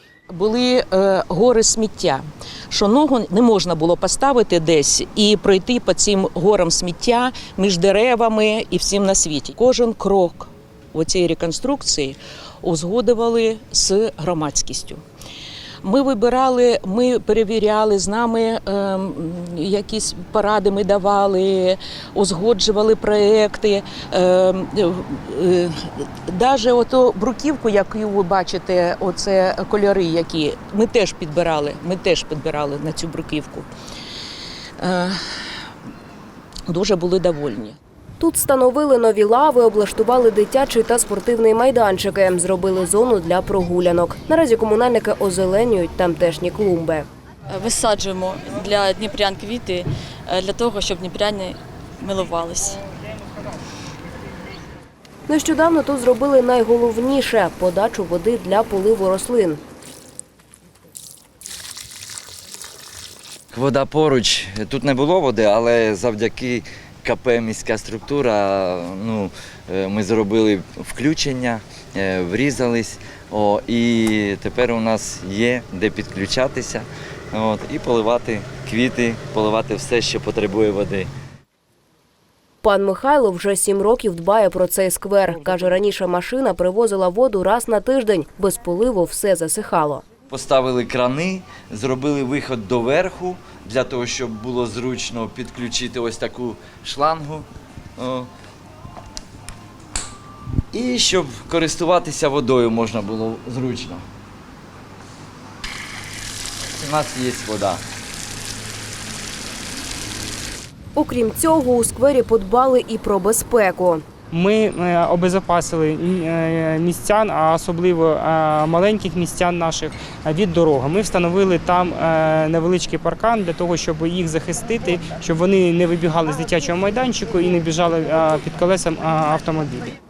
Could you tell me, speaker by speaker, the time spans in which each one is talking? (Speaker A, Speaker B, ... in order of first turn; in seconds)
Speaker A: 0.3-15.0, 15.8-33.7, 34.8-35.2, 36.7-37.8
Speaker B: 38.2-47.0, 55.3-59.6, 82.6-90.0, 111.0-114.0
Speaker C: 47.5-52.8
Speaker D: 63.5-81.1, 90.3-97.5, 98.0-98.3, 100.7-104.0, 106.8-107.8
Speaker E: 114.3-129.9